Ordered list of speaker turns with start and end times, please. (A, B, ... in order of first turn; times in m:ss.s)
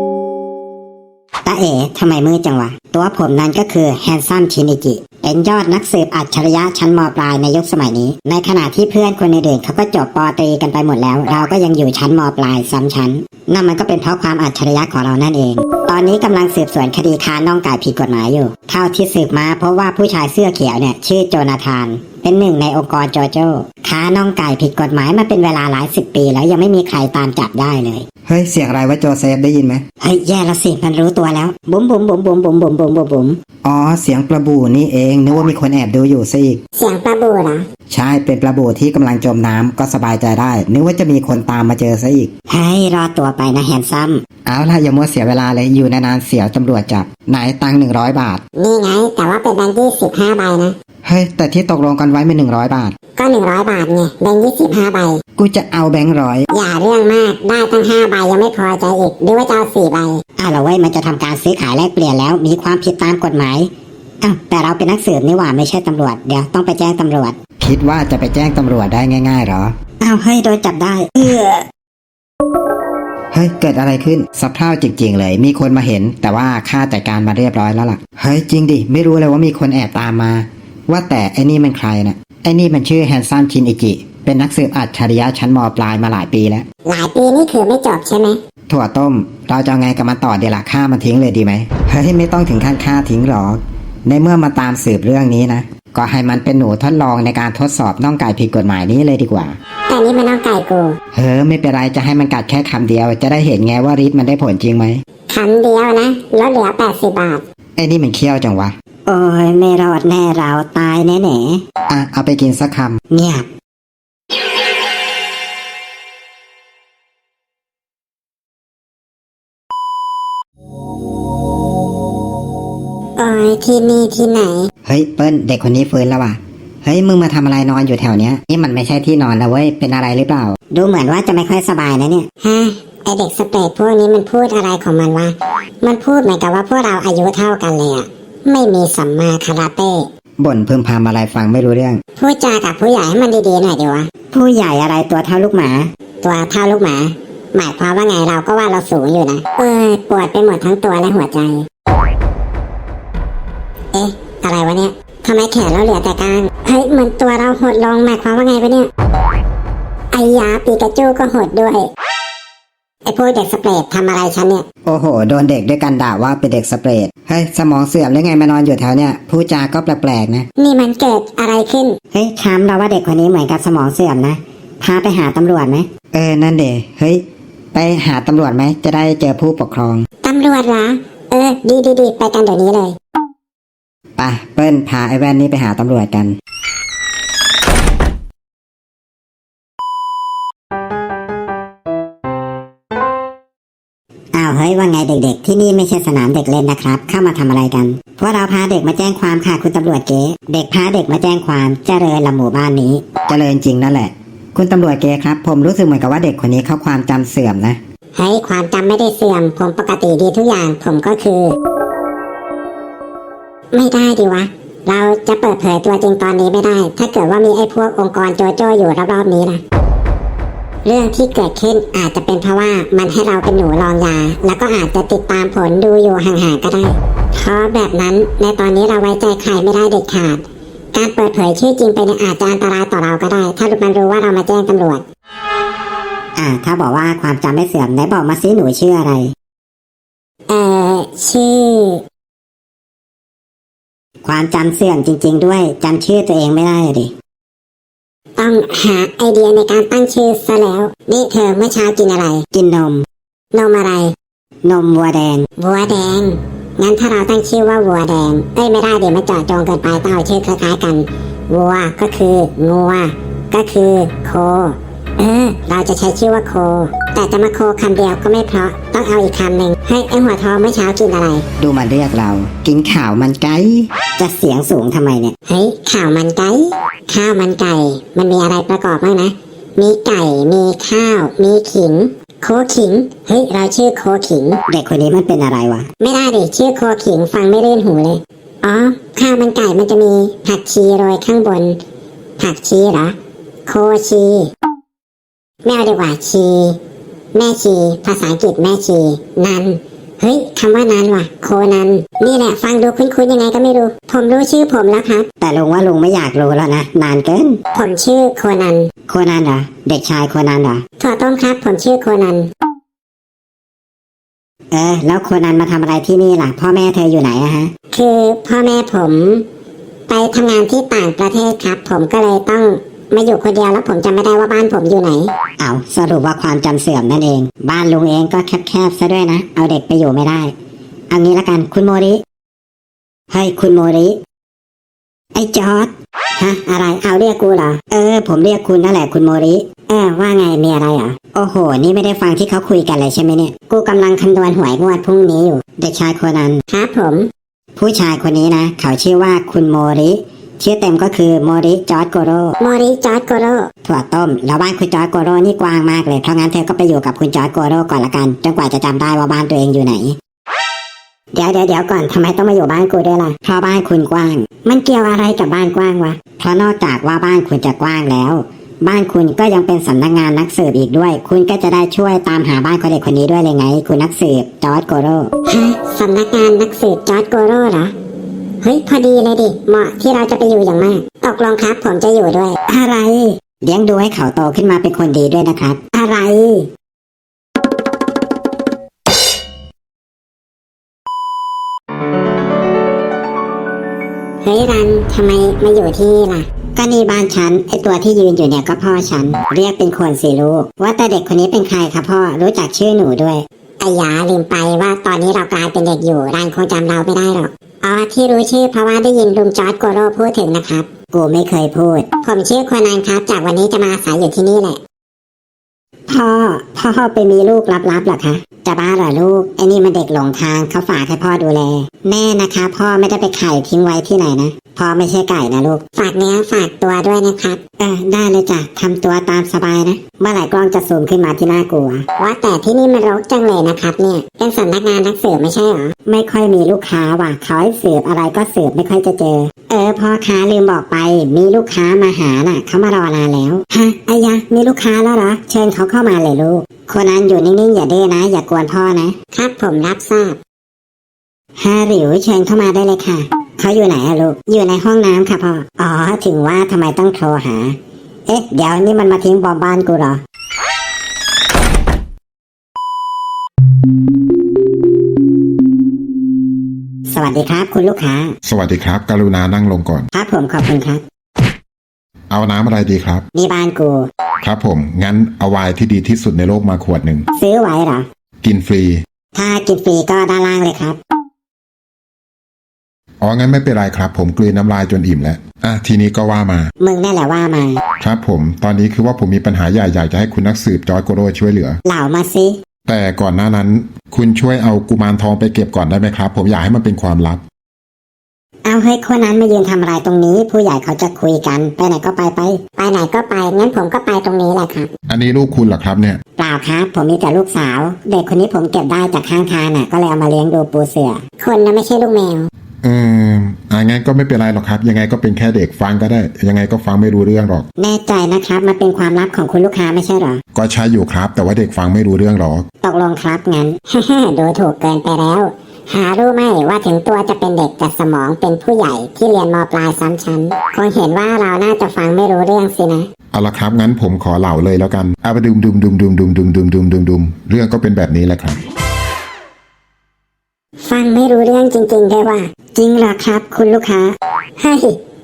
0:01.4-0:28.0 A
0:28.2-0:29.8 B
0:30.0-0:33.4 A
0:33.6-0:36.6 B
0:36.8-0:37.6 C
0:37.9-0:42.3 B
0:42.5-0:44.2 A
0:44.4-0:48.4 B
0:48.6-0:50.7 C
0:51.0-0:52.9 B
0:53.2-0:55.2 C
0:55.4-0:56.5 B
0:56.5-1:00.2 C
1:00.4-1:03.7 A
1:04.2-1:07.4 A
1:07.6-1:09.7 B
1:10.0-1:11.6 A
1:13.3-1:26.6 B
1:26.8-1:28.4 C
1:28.7-1:39.6 B
1:39.9-1:41.0 C
1:41.1-1:45.0 B
1:45.3-1:47.4 C
1:47.8-1:48.7 B
1:49.1-1:51.6 A
1:51.9-1:53.0 B
1:53.1-1:53.5 A
2:03.2-2:04.7 C
2:04.8-2:10.6 B
2:10.7-2:12.2 A
2:12.4-2:20.1 C
2:20.4-2:22.0 B
2:22.2-2:24.1 C
2:24.3-2:25.9 A
2:26.2-2:31.6 C
2:33.9-2:38.9 C
2:40.1-2:41.9 C
2:43.0-2:44.6 C
2:44.8-2:50.4 B
2:50.6-2:52.0 C
2:52.1-2:55.9 A
2:56.0-2:57.2 B
2:57.7-3:00.0 B
3:00.2-3:03.0 C
3:04.2-3:06.3 B
3:14.3-3:23.0 A
3:23.2-3:27.8 B
3:28.1-3:31.6 C
3:33.7-3:39.6 C
3:40.8-3:55.0 C
3:56.4-3:59.3 A
4:00.5-4:02.0 C
4:04.2-4:07.1 A
4:08.4-4:12.4 C
4:12.5-4:13.0 A
4:13.5-4:14.1 C
4:14.6-4:15.4 A
4:15.6-4:31.4 C
4:31.6-4:33.9 B
4:34.2-4:35.3 A
4:35.5-4:44.6 C
4:44.7-4:45.9 A
4:46.0-4:51.8 C
4:52.4-4:54.5 C
4:55.6-4:56.8 C
4:57.3-5:05.2 C
5:05.4-5:07.6 A
5:07.7-5:08.9 C
5:09.1-5:10.8 A
5:11.0-5:12.5 C
5:14.7-5:17.7 A
5:17.9-5:19.4 C
5:20.1-5:25.3 C
5:25.6-5:30.5 A
5:31.1-5:32.2 A
5:33.3-5:34.2 A
5:35.3-5:46.6 A
5:46.7-5:47.3 C
5:47.8-5:52.6 A
5:52.6-5:53.7 C
5:53.8-6:00.2 A
6:01.3-6:15.3 A
6:15.4-6:17.9 C
6:18.6-6:22.6 C
6:22.7-6:25.8 A
6:25.9-6:26.7 C
6:34.4-6:36.5 C
6:36.8-6:43.4 A
6:43.8-6:50.9 C
6:51.1-6:52.1 A
6:52.2-6:54.8 C
6:56.1-7:05.8 A
7:05.9-7:07.6 C
7:07.8-7:12.0 A
7:12.1-7:15.9 C
7:16.0-7:29.1 A
7:29.3-7:30.4 C
7:31.6-7:37.7 A
7:38.3-7:40.2 A
7:47.1-7:48.3 A
7:48.4-7:50.1 D
7:50.1-7:51.0 A
7:52.3-7:53.2 D
7:53.3-7:54.1 A
7:54.4-7:57.3 D
7:57.4-7:58.0 A
7:58.4-7:59.0 D
7:59.4-8:01.0 A
8:03.2-8:06.7 D
8:06.8-8:07.8 A
8:08.0-8:11.8 D
8:11.8-8:12.6 A
8:12.8-8:17.4 D
8:18.6-8:22.6 A
8:22.8-8:24.9 C
8:25.1-8:26.2 D
8:26.4-8:31.2 A
8:31.4-8:32.5 C
8:32.8-8:37.6 D
8:37.8-8:40.4 A
8:40.5-8:42.6 D
8:42.8-8:43.8 A
8:43.9-8:53.1 C
8:53.3-8:58.6 D
9:00.8-9:02.5 C
9:02.8-9:04.1 A
9:04.6-9:05.0 C